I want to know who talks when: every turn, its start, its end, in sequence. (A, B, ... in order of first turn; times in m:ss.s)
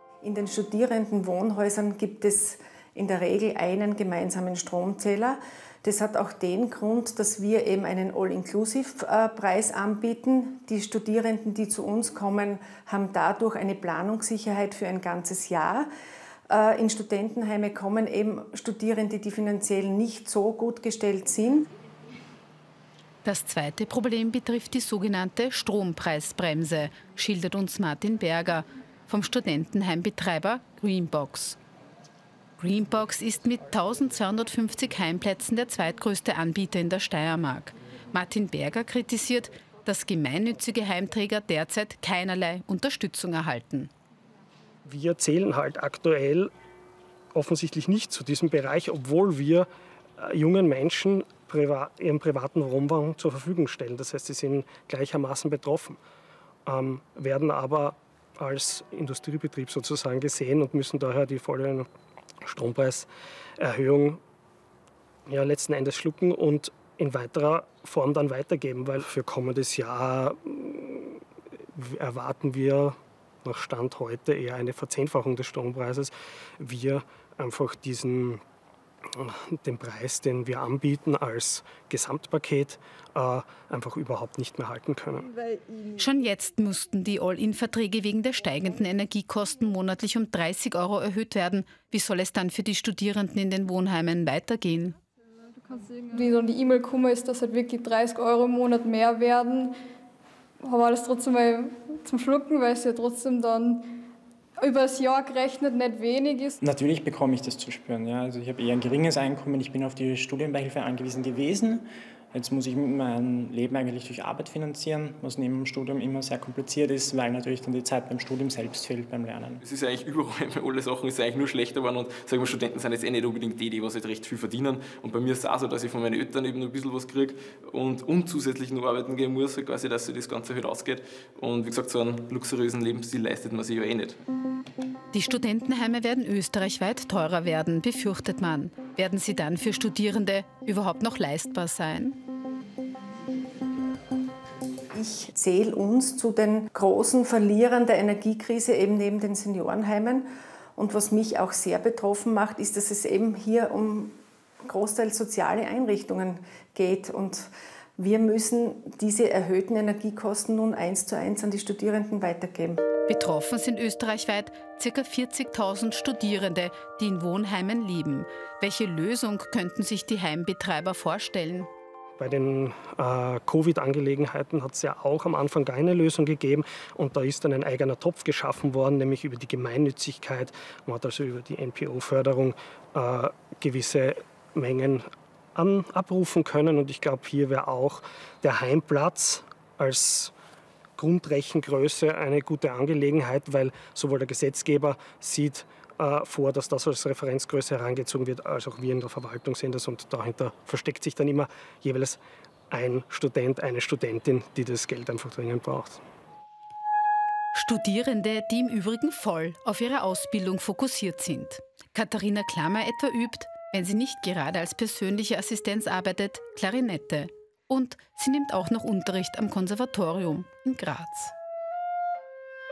0:00.2-0:15.9 A
0:16.5-0:21.7 A
0:23.2-0:31.6 B
0:32.6-0:43.9 B
0:44.8-0:46.5 C
0:47.3-0:56.0 C
0:56.6-1:01.9 C
1:02.4-1:03.1 C
1:03.6-1:04.2 C
1:05.3-1:11.2 C
1:11.7-1:18.4 C
1:19.1-1:25.3 C
1:26.0-1:35.0 B
1:35.6-1:39.8 D
1:40.6-1:44.0 D
1:44.6-1:46.6 D
1:46.6-1:59.6 E
1:59.6-2:14.2 F
2:15.1-2:22.2 B
2:24.9-2:42.8 A
2:43.1-2:51.7 B
2:52.2-3:10.3 C
3:11.0-3:26.0 C
3:27.5-3:41.3 B